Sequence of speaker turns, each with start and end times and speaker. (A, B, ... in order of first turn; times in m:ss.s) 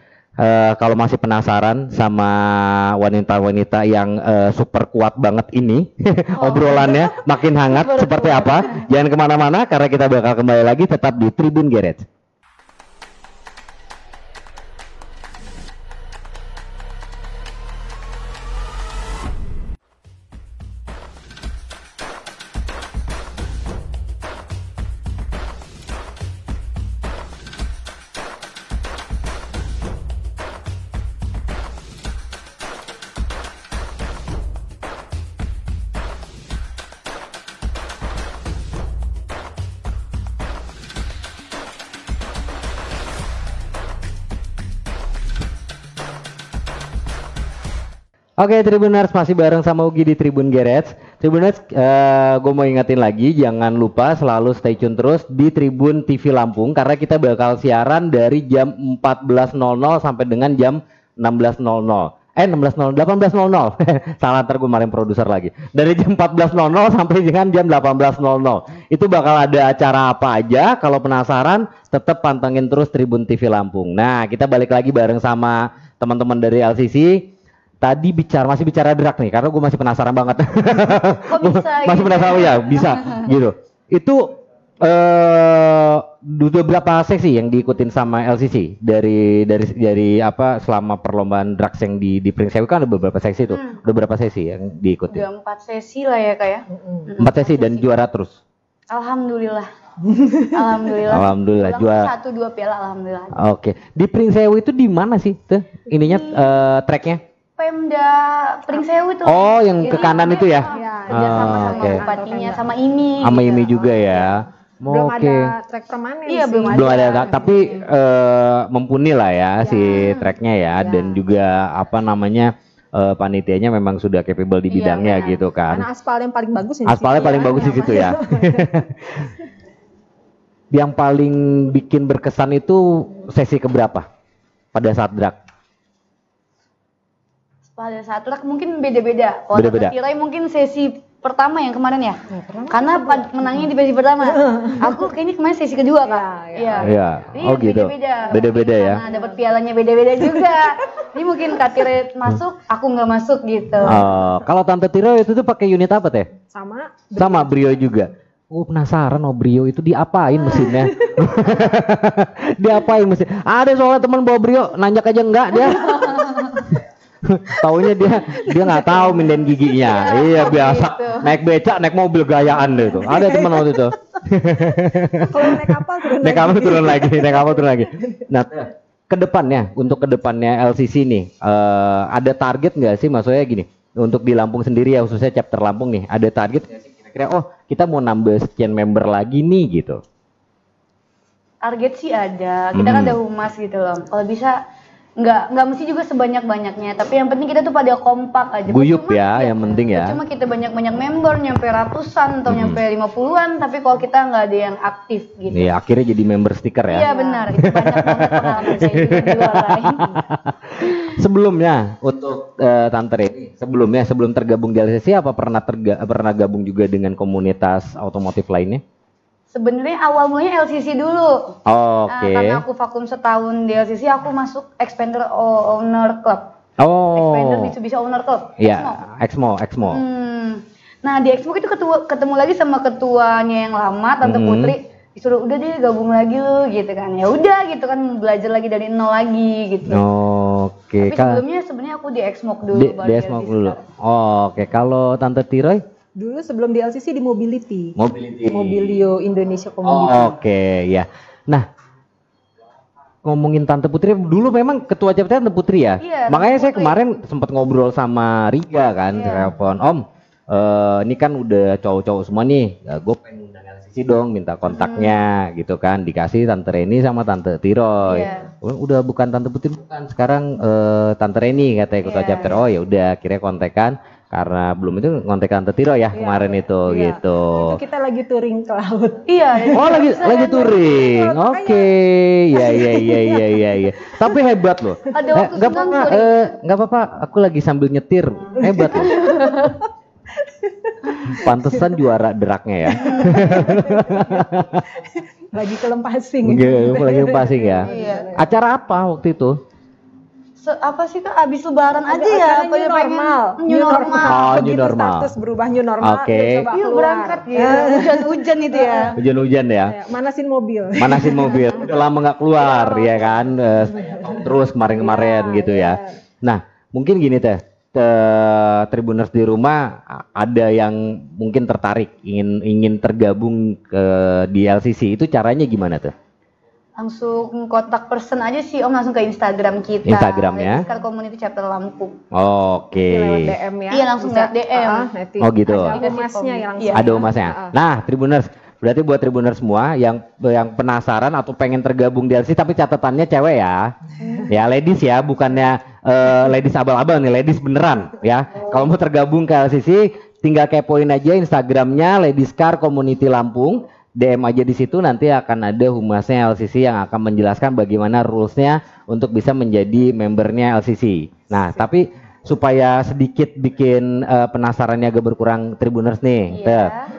0:00.4-0:12.0 A
0:06.4-0:08.9 B
0:48.4-1:17.3 A
1:17.8-1:35.2 A
1:21.3-1:23.2 B
1:33.5-1:33.8 B
1:35.1-1:37.9 B
1:37.2-1:38.4 A
1:38.9-1:39.7 B
1:40.3-1:43.4 B
1:41.1-1:42.1 A
1:43.3-1:47.2 A
1:46.0-1:46.4 B
1:47.6-1:54.3 B
1:49.2-1:52.0 A
1:49.8-1:52.6 C
1:53.2-1:55.5 A
1:54.9-1:57.8 C
1:56.3-1:57.7 B
1:56.7-2:05.9 A
1:59.6-2:00.1 C
1:59.8-2:00.3 B
2:00.8-2:01.2 C
2:04.7-2:05.4 B
2:05.7-2:08.6 C
2:06.8-2:09.3 A
2:10.7-2:14.0 A
2:14.7-2:15.4 A
2:17.7-2:34.0 B
2:19.5-2:19.9 A
2:22.3-2:23.7 C
2:24.4-2:24.9 C
2:26.0-2:27.0 C
2:26.8-2:29.0 A
2:28.3-2:29.4 C
2:33.8-2:36.3 A
2:36.5-2:37.5 C
2:37.2-2:46.1 A
2:45.8-2:46.7 B
2:45.9-2:46.6 C
2:47.2-3:10.0 A
2:48.4-2:49.6 C
2:49.8-2:51.3 B
2:52.6-2:53.9 C
2:55.2-2:58.2 C
3:11.6-3:14.6 B
3:12.7-3:13.2 A
3:15.2-3:25.7 B
3:18.7-3:20.2 A
3:22.5-3:22.8 A
3:25.5-3:38.8 A
3:26.9-3:30.0 B
3:26.9-3:27.5 C
3:39.5-3:41.5 B
3:41.6-3:42.6 A
3:42.1-3:46.5 B
3:46.8-3:47.7 A
3:47.1-3:49.0 B
3:48.6-3:50.0 A
3:49.8-4:00.0 B
3:54.2-3:54.7 A
3:59.9-4:01.4 A
4:01.0-4:03.8 B
4:02.7-4:05.8 A
4:06.2-4:08.0 C
4:08.0-4:09.1 A
4:08.5-4:10.4 C
4:09.8-4:11.7 A
4:13.2-4:37.8 A
4:16.0-4:17.0 B
4:19.1-4:19.5 B
4:24.7-4:25.2 B
4:28.0-4:28.5 B
4:32.0-4:32.6 B
4:36.1-4:41.9 C
4:39.3-4:40.8 B
4:39.7-4:49.2 A
4:42.5-4:43.6 C
4:45.1-4:46.5 B
4:48.6-4:49.8 C
4:48.9-4:49.8 B
4:50.4-4:51.9 C
4:51.3-4:54.8 A
4:53.0-4:54.4 C
4:53.0-4:53.6 B
4:55.1-4:58.4 C
4:56.4-4:59.6 A
4:57.8-4:58.4 B
5:00.6-5:04.6 B
5:02.0-5:09.2 C
5:04.2-5:05.3 A
5:06.0-5:06.7 A
5:06.7-5:09.2 B
5:09.2-5:09.9 A
5:09.8-5:11.9 C
5:11.0-5:26.1 A
5:12.5-5:13.4 C
5:13.9-5:16.1 C
5:27.0-5:32.2 B
5:30.0-5:30.8 A
5:32.3-5:33.6 A
5:33.1-5:37.7 C
5:33.9-5:35.1 B
5:35.4-5:36.0 A
5:35.9-5:37.2 B
5:36.9-5:43.9 A
5:44.5-6:06.9 A
6:06.5-6:07.1 B